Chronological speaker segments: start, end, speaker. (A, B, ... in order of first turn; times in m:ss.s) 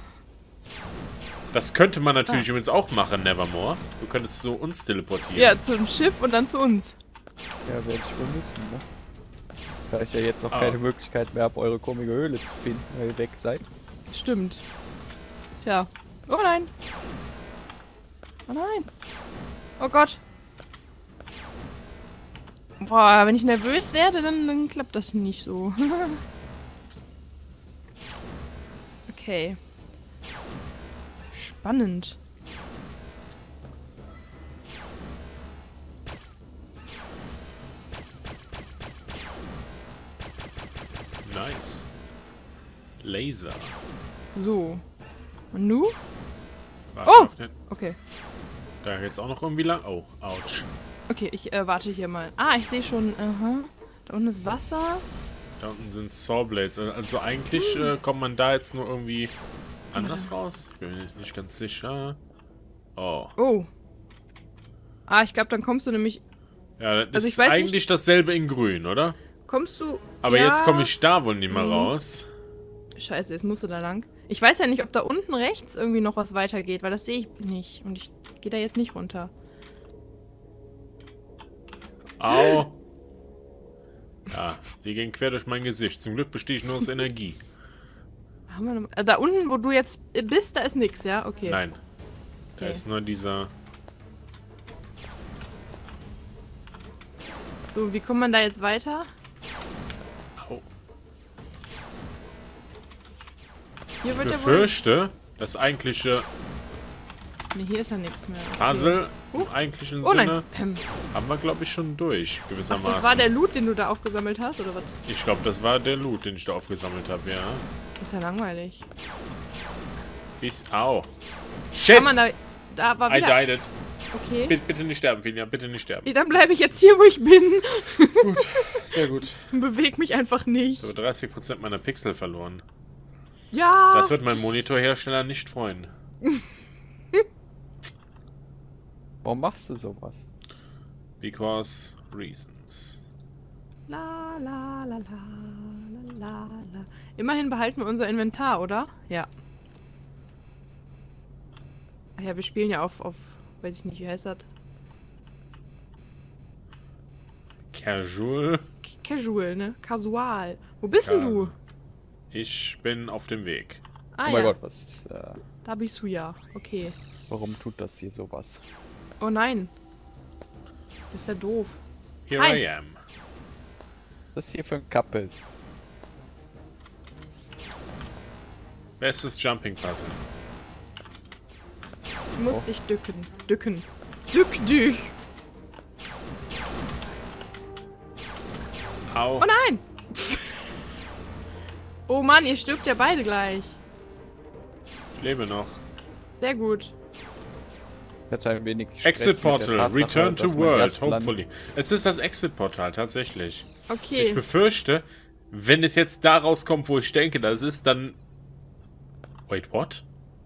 0:01.5-0:05.6 A
0:05.3-0:07.0 B
0:07.6-0:08.8 C
0:09.9-0:13.6 C
0:10.5-0:10.8 A
0:14.1-0:14.6 B
0:15.6-0:16.7 B
0:18.5-0:18.9 B
0:19.8-0:20.2 B
0:22.8-0:26.2 B
0:29.1-0:29.6 B
0:31.3-0:32.2 B
0:41.2-0:41.9 A
0:43.0-0:43.7 A
0:44.3-0:44.8 B
0:45.5-0:46.0 B
0:46.9-0:47.5 A
0:47.0-0:48.0 B
0:48.8-0:50.7 A
0:51.1-0:55.0 B
0:55.6-0:59.3 A
0:57.5-0:57.9 B
0:59.9-1:02.2 A
0:59.9-1:00.3 B
1:03.0-1:03.3 A
1:03.4-1:03.7 B
1:05.1-1:06.2 B
1:06.8-1:09.2 A
1:07.1-1:07.8 B
1:09.4-1:10.9 B
1:10.2-1:12.3 A
1:11.5-1:11.9 B
1:13.0-1:19.3 B
1:22.2-1:22.7 A
1:22.3-1:22.6 B
1:24.3-1:27.4 A
1:28.5-1:31.6 B
1:31.4-1:31.8 A
1:32.6-1:32.8 B
1:32.6-1:33.5 A
1:37.7-1:39.1 B
1:40.4-1:40.6 A
1:44.0-1:44.7 B
1:44.0-1:46.3 A
1:47.5-1:49.5 B
1:48.6-1:50.5 A
1:50.0-1:50.8 B
1:51.1-1:53.3 A
1:52.7-1:54.9 B
1:55.0-1:57.6 A
1:58.0-1:58.8 B
2:00.4-2:01.1 A
2:01.7-2:02.1 A
2:01.9-2:03.4 B
2:03.1-2:03.7 A
2:04.1-2:04.5 B
2:04.5-2:06.1 A
2:06.0-2:08.9 B
2:08.2-2:09.5 A
2:09.5-2:10.9 B
2:10.8-2:12.6 A
2:13.5-2:14.6 B
2:13.9-2:15.9 A
2:19.2-2:20.2 C
2:21.2-2:23.0 A
2:23.9-2:29.3 B
2:32.2-2:34.4 B
2:37.7-2:38.7 A
2:38.8-2:41.5 B
2:41.0-2:41.5 A
2:42.3-2:43.8 A
2:44.1-2:44.6 B
2:44.2-2:45.4 C
2:45.6-2:47.0 B
2:47.3-2:48.6 C
2:49.2-2:49.7 B
2:51.1-2:51.8 B
2:52.3-2:53.0 A
2:54.3-2:55.5 C
2:59.0-3:00.2 A
3:02.4-3:05.1 B
3:09.1-3:09.5 A
3:09.4-3:10.6 B
3:12.1-3:13.8 B
3:15.2-3:15.8 A
3:16.4-3:16.9 B
3:18.3-3:21.4 C
3:19.0-3:28.2 A
3:23.9-3:24.4 B
3:29.5-3:30.0 A